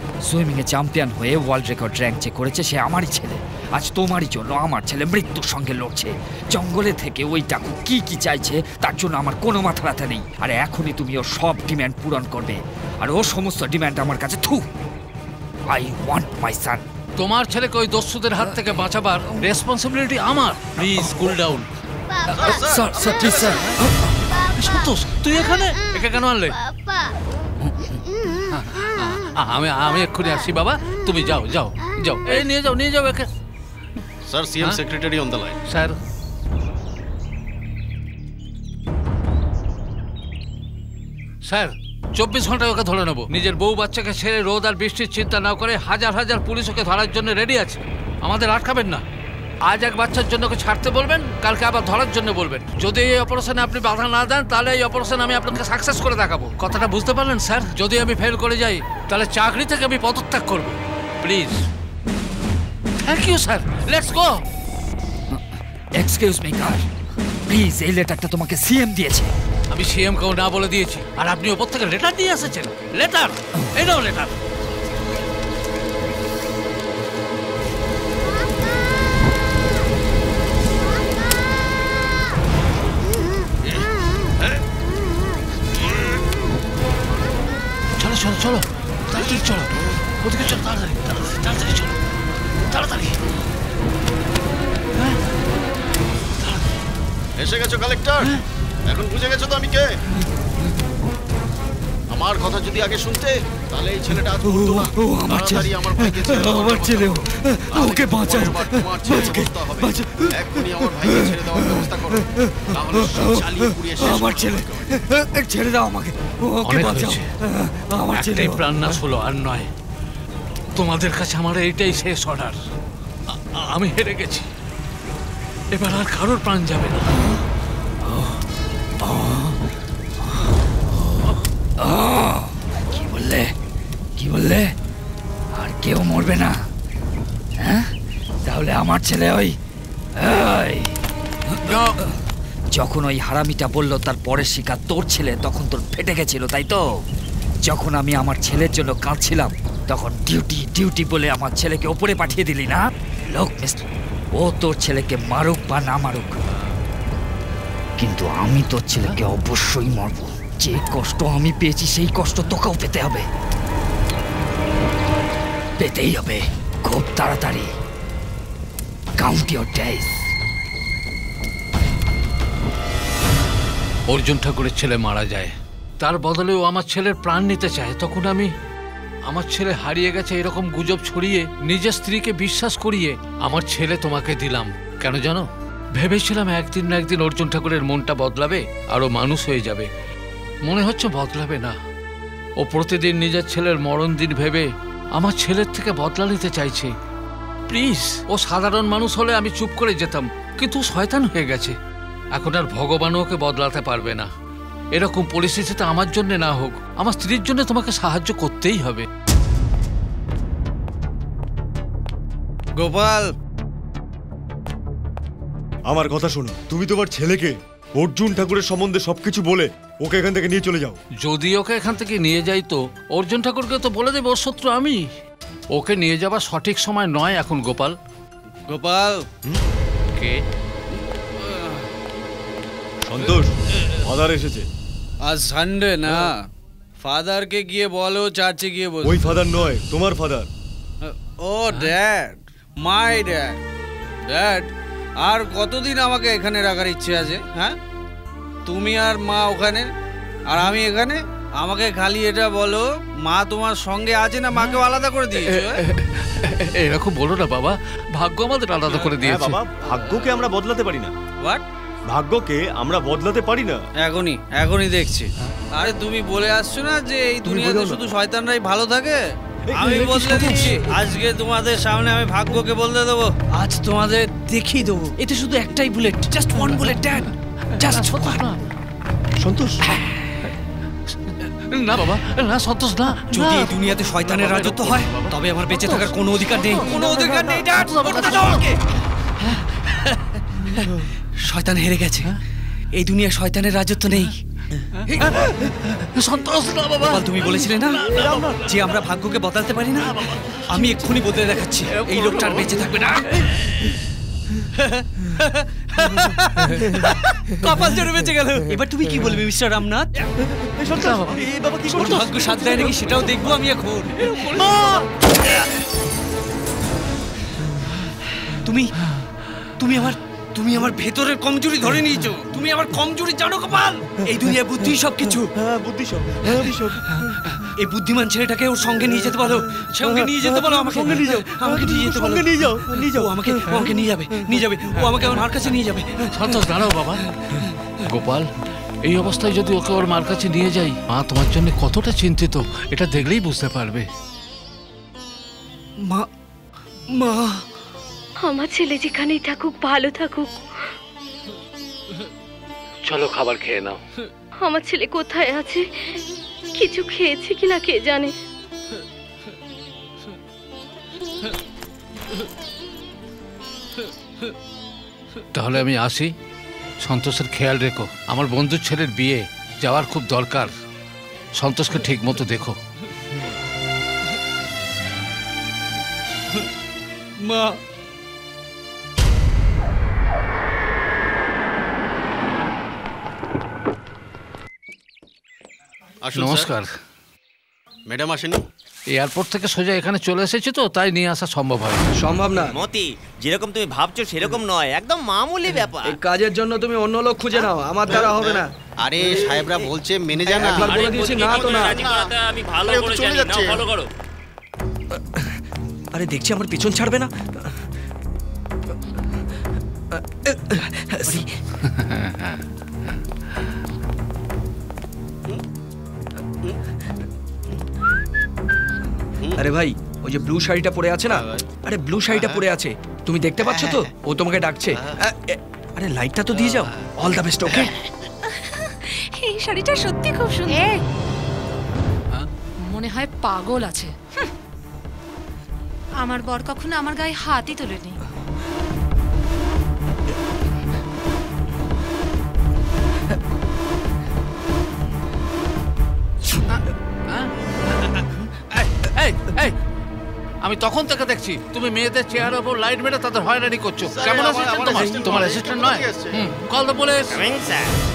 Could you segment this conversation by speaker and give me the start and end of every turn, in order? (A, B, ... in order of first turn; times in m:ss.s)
0:00.3-0:14.6 A
0:15.7-0:16.8 A
0:17.2-0:21.7 B
0:22.3-0:26.6 B
0:22.3-0:23.7 C
0:27.6-0:28.0 A
0:28.5-0:33.3 B
0:34.3-0:35.6 C
0:35.7-0:36.0 B
0:41.4-0:49.0 B
0:49.6-1:01.6 B
1:03.0-1:04.4 B
1:05.9-1:06.9 A
1:07.5-1:09.3 A
1:09.7-1:14.3 B
1:28.0-1:31.9 B
1:32.7-1:33.2 B
1:37.4-1:38.3 C
1:38.9-1:39.9 C
1:42.1-1:55.0 C
1:45.1-1:45.5 A
1:46.0-1:47.2 D
1:47.8-1:49.4 D
1:54.0-1:54.6 D
1:56.4-1:57.2 D
1:56.6-1:57.3 B
1:58.0-1:58.6 D
1:58.1-1:59.7 B
2:00.7-2:02.6 B
2:03.3-2:04.5 B
2:05.7-2:07.2 B
2:09.0-2:09.6 A
2:11.8-2:13.5 A
2:14.2-2:14.7 A
2:15.5-2:16.6 A
2:17.6-2:17.9 A
2:18.4-2:19.6 A
2:20.2-2:20.9 A
2:21.6-2:22.0 A
2:22.7-2:26.8 A
2:27.6-2:33.8 A
2:34.3-2:36.3 A
2:38.0-2:43.2 A
2:45.8-2:47.7 A
2:49.2-2:50.2 A
2:54.1-2:58.5 B
2:59.3-3:09.9 B
3:10.6-3:11.8 B
3:12.6-3:16.9 B
3:17.7-3:21.8 B
3:22.3-3:24.3 B
3:24.9-3:29.0 B
3:32.8-3:33.2 E
3:35.8-3:41.0 F
3:41.2-3:45.0 B
3:45.7-3:48.0 B
3:48.7-3:49.2 E
3:50.2-3:50.4 B
3:53.0-3:54.7 F
3:55.2-3:56.4 E
3:57.0-3:59.4 E
3:59.0-4:00.5 F
4:01.0-4:03.6 E
4:04.3-4:04.7 E
4:05.2-4:07.8 E
4:08.6-4:09.9 E
4:10.5-4:15.8 E
4:16.5-4:19.6 B
4:18.9-4:21.1 F
4:22.1-4:23.8 F
4:24.0-4:29.2 E
4:27.5-4:27.8 G
4:29.7-4:30.5 F
4:29.7-4:34.4 E
4:34.6-4:37.2 D
4:37.8-4:38.4 D
4:37.8-4:38.6 B
4:39.4-4:39.7 D
4:41.6-4:48.7 B
4:43.3-4:48.6 D
4:51.4-4:52.3 D
4:52.9-4:54.3 D
4:55.1-4:55.4 D
4:56.1-4:58.6 B
4:57.0-5:03.2 D
5:00.2-5:01.1 B
5:01.9-5:03.2 B
5:07.6-5:10.1 D
5:07.7-5:08.2 G
5:11.0-5:11.3 B
5:11.0-5:15.0 D
5:14.4-5:15.0 B
5:19.8-5:25.5 D
5:27.8-5:36.2 D
5:36.3-5:37.2 B
5:38.0-5:38.5 B
5:39.0-5:44.1 B
5:47.2-5:47.6 G
5:48.4-5:50.6 H
5:53.0-5:54.0 B
5:54.6-5:56.2 H
5:56.7-5:58.3 H
6:05.5-6:06.3 B
6:07.0-6:10.7 B
6:11.6-6:12.8 B
6:26.2-6:26.7 C
6:26.3-6:26.9 B
6:28.1-6:28.6 C
6:29.1-6:32.0 B
6:32.1-6:32.7 G
6:32.5-6:36.2 I
6:36.0-6:38.7 G
6:38.1-6:43.8 C
6:40.6-6:42.1 G
6:40.7-6:44.1 J
6:46.1-6:47.3 G
6:50.1-6:51.5 G
6:51.9-6:52.6 B
6:59.6-7:07.9 G
7:01.3-7:01.6 C
7:02.3-7:02.6 C
7:03.7-7:04.1 C
7:09.5-7:10.9 K
7:12.9-7:14.1 K
7:16.2-7:18.1 K
7:28.7-7:29.7 B
7:30.6-7:37.4 B
7:34.1-7:36.4 C
7:37.3-7:37.9 I